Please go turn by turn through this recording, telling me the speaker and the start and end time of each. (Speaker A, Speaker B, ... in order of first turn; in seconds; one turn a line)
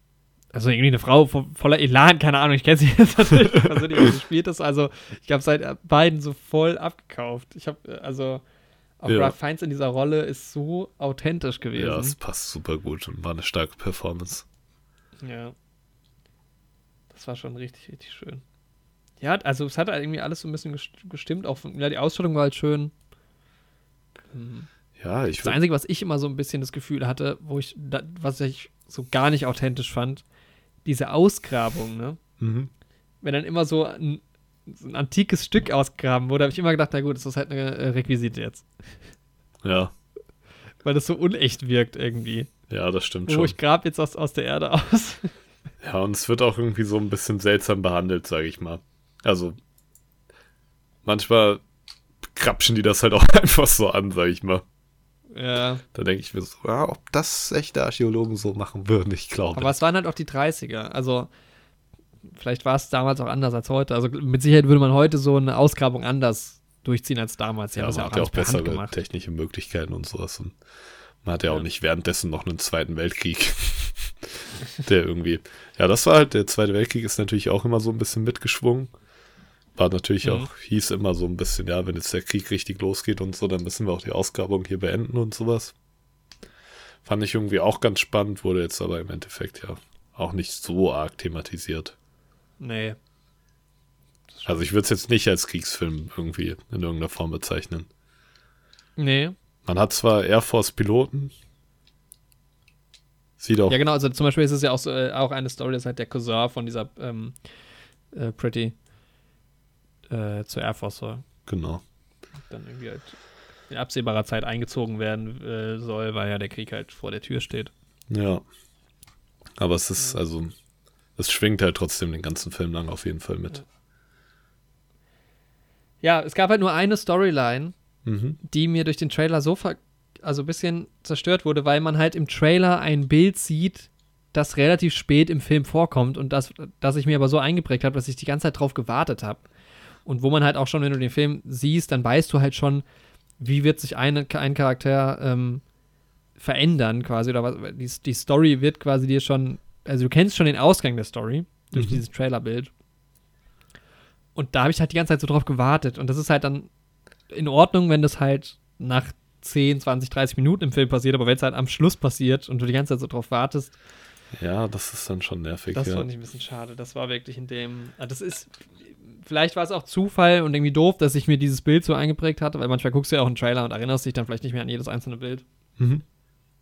Speaker A: 0.5-8.4
Speaker A: 9.0-12.2
Speaker B: 9.1-9.3
Speaker B: 11.7-14.4
Speaker A: 15.2-15.5
Speaker A: 17.1-18.4
Speaker A: 19.2-22.9
Speaker A: 24.3-24.7
Speaker B: 25.0-25.6
Speaker A: 25.4-30.2
Speaker A: 30.8-32.2
Speaker B: 32.4-32.7
Speaker A: 33.2-38.7
Speaker B: 39.6-39.9
Speaker A: 40.8-42.5
Speaker B: 42.7-43.5
Speaker A: 43.3-45.3
Speaker B: 45.8-49.6
Speaker B: 51.0-51.6
Speaker B: 52.3-54.6
Speaker A: 55.3-55.8
Speaker B: 55.9-59.7
Speaker A: 59.5-61.3
Speaker A: 62.3-68.9
Speaker B: 67.8-70.6
Speaker B: 71.2-78.9
Speaker B: 79.8-85.7
Speaker A: 80.2-80.5
Speaker B: 87.0-91.9
Speaker A: 92.6-93.0
Speaker A: 94.3-94.6
Speaker B: 94.4-97.9
Speaker A: 99.0-99.3
Speaker B: 99.6-101.3
Speaker B: 103.4-103.8
Speaker A: 103.7-107.4
Speaker A: 108.1-108.7
Speaker A: 110.1-111.2
Speaker B: 111.5-111.8
Speaker A: 112.5-113.2
Speaker A: 113.7-117.7
Speaker B: 118.1-118.4
Speaker B: 119.6-120.5
Speaker B: 121.2-123.6
Speaker A: 126.0-127.7
Speaker B: 128.1-128.4
Speaker A: 128.4-139.4
Speaker A: 140.0-142.8
Speaker A: 143.4-145.6
Speaker A: 146.4-152.7
Speaker A: 154.3-156.7
Speaker A: 157.3-163.8
Speaker B: 164.3-166.1
Speaker A: 165.7-175.4
Speaker B: 175.8-176.0